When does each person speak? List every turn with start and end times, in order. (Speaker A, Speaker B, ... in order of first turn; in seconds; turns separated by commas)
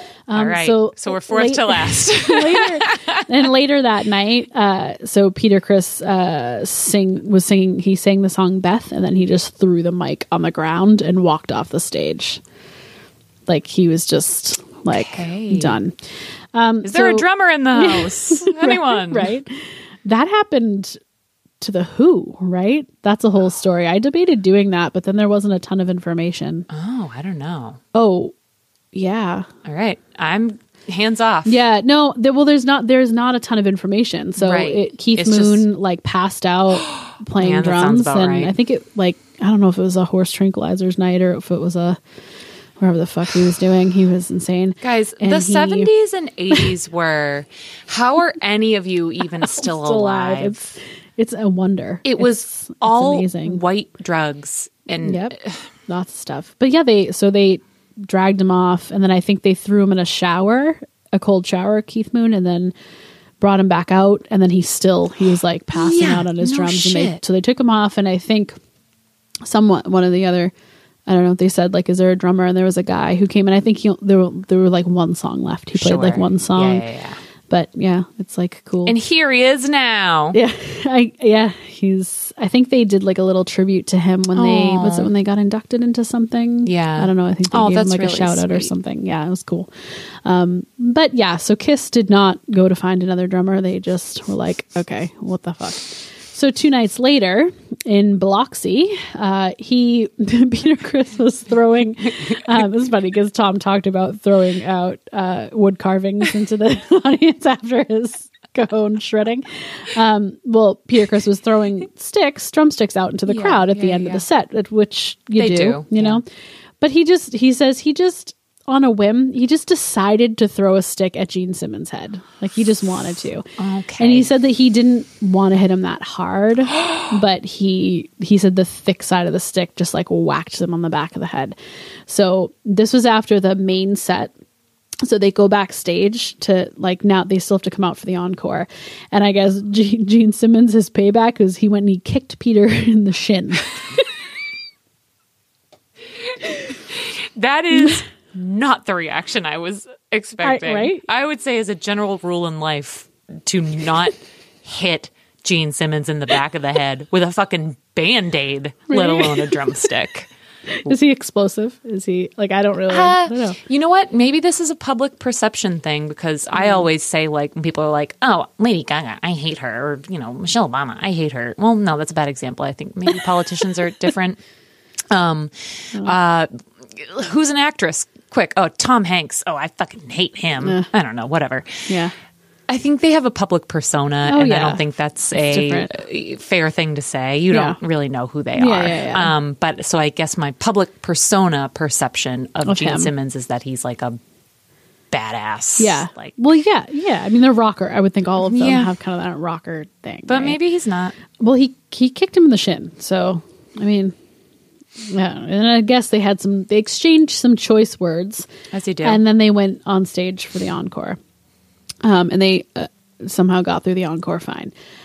Speaker A: 0.3-12.4, Speaker B: 0.3-3.3, Speaker A: 13.5-15.9, Speaker B: 14.9-15.8, Speaker A: 16.5-21.0, Speaker B: 16.8-19.3, Speaker A: 21.6-26.7, Speaker B: 26.7-27.8, Speaker A: 27.9-28.3, Speaker A: 28.9-29.5, Speaker B: 29.6-31.5, Speaker A: 31.4-42.0, Speaker B: 34.4-35.6, Speaker B: 37.4-38.5, Speaker A: 42.8-45.9, Speaker B: 44.8-50.8, Speaker A: 49.4-53.6, Speaker B: 52.0-55.6, Speaker A: 55.0-55.4, Speaker A: 55.9-62.7, Speaker A: 63.4-68.6, Speaker B: 65.7-67.2, Speaker A: 69.4-70.5, Speaker A: 71.1-76.8, Speaker B: 75.7-77.2, Speaker A: 77.5-79.0, Speaker B: 78.8-80.4, Speaker A: 80.3-89.7, Speaker B: 84.3-85.1, Speaker B: 86.7-88.7, Speaker A: 90.2-116.2, Speaker B: 113.3-114.2, Speaker B: 115.4-116.2, Speaker A: 116.8-123.5, Speaker B: 123.6-124.3, Speaker A: 124.0-131.6, Speaker A: 132.1-134.3, Speaker A: 135.0-144.1, Speaker B: 146.3-160.3, Speaker A: 150.4-151.0, Speaker A: 158.9-159.7, Speaker A: 160.8-163.6, Speaker B: 162.9-174.4, Speaker B: 175.1-181.9, Speaker A: 180.6-180.9, Speaker A: 181.9-182.1, Speaker B: 182.7-194.2, Speaker A: 184.2-185.9, Speaker A: 187.5-187.8, Speaker A: 188.6-189.3, Speaker A: 192.6-193.1, Speaker B: 195.1-196.3, Speaker A: 195.8-200.6, Speaker B: 198.4-198.9, Speaker B: 200.3-201.1, Speaker A: 201.4-204.1, Speaker A: 205.1-208.5, Speaker B: 208.7-209.2, Speaker A: 209.0-211.2, Speaker A: 212.0-214.7